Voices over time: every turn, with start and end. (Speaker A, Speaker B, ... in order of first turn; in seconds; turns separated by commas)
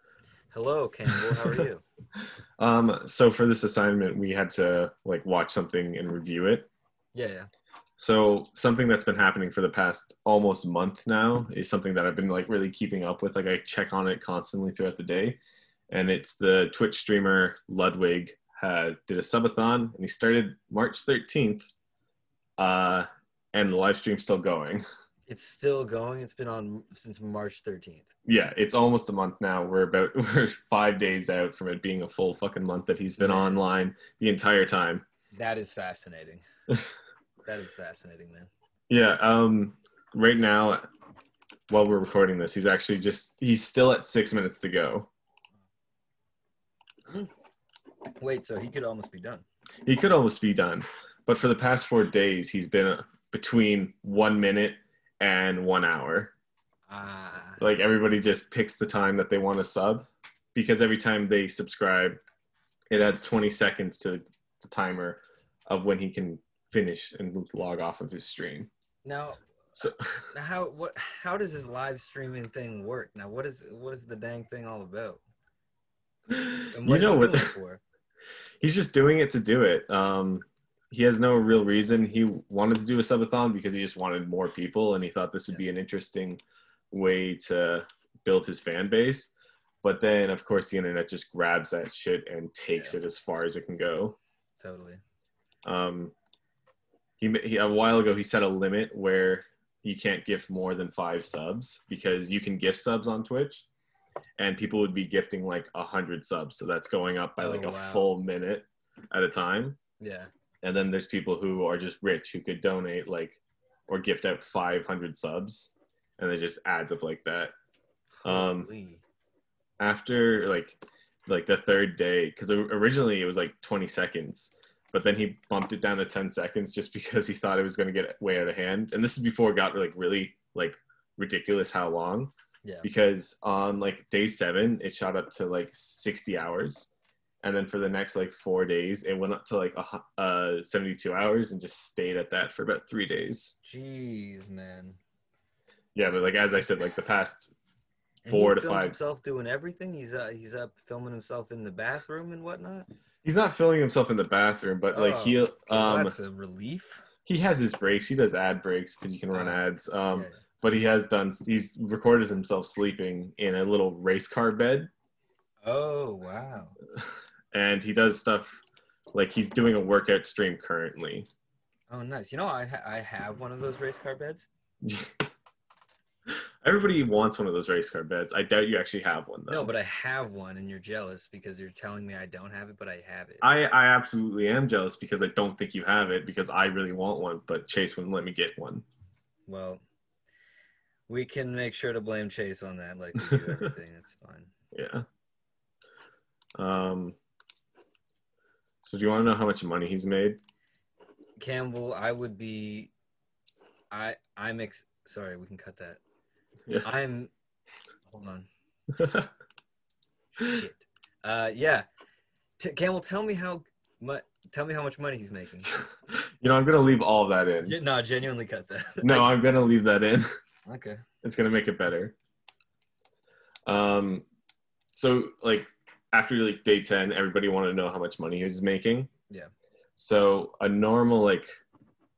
Speaker A: 0.5-1.8, Speaker B: 2.6-6.7, Speaker A: 7.1-7.5, Speaker B: 8.0-15.4, Speaker B: 15.9-21.7, Speaker B: 22.6-24.8, Speaker A: 25.3-28.1, Speaker B: 28.2-35.0, Speaker A: 33.2-33.6, Speaker A: 35.3-36.4, Speaker A: 37.5-38.5, Speaker B: 38.9-40.9, Speaker B: 41.7-45.1, Speaker A: 48.1-49.4, Speaker B: 49.9-56.3, Speaker A: 56.9-57.6, Speaker B: 57.6-62.2, Speaker B: 62.9-68.7, Speaker A: 69.0-69.4, Speaker A: 70.3-75.2, Speaker B: 76.3-77.5, Speaker A: 76.7-77.8, Speaker B: 78.6-94.2, Speaker A: 94.6-95.0, Speaker B: 95.6-96.1, Speaker B: 97.2-103.7, Speaker B: 104.4-109.8, Speaker A: 107.4-108.2, Speaker A: 110.0-110.3, Speaker B: 110.6-117.5, Speaker A: 118.2-119.0, Speaker B: 118.2-118.7, Speaker B: 119.8-132.3, Speaker B: 132.8-136.9, Speaker B: 137.4-143.6, Speaker A: 143.6-145.0, Speaker B: 145.9-147.5, Speaker A: 148.2-152.9, Speaker B: 148.3-148.9, Speaker B: 153.2-156.2, Speaker A: 154.9-157.1, Speaker B: 157.2-164.9, Speaker A: 159.3-159.6, Speaker A: 160.1-160.4, Speaker A: 165.6-166.8, Speaker B: 167.5-168.6, Speaker B: 169.1-171.3, Speaker A: 171.9-174.5, Speaker B: 174.8-175.3, Speaker B: 176.6-179.7, Speaker A: 179.5-183.5, Speaker B: 183.4-188.8, Speaker A: 189.5-189.8, Speaker A: 191.1-194.5, Speaker B: 194.7-195.0, Speaker B: 196.6-197.2, Speaker B: 198.8-200.4, Speaker A: 201.4-202.9, Speaker A: 203.9-206.0, Speaker A: 206.8-207.3, Speaker A: 208.1-208.5, Speaker B: 208.9-209.3, Speaker A: 210.4-211.9, Speaker A: 212.6-215.7, Speaker B: 215.8-217.8, Speaker A: 217.6-219.3, Speaker B: 219.0-220.3, Speaker A: 220.7-221.0, Speaker B: 221.2-222.2, Speaker B: 223.7-224.2, Speaker B: 224.9-229.1, Speaker B: 230.0-231.5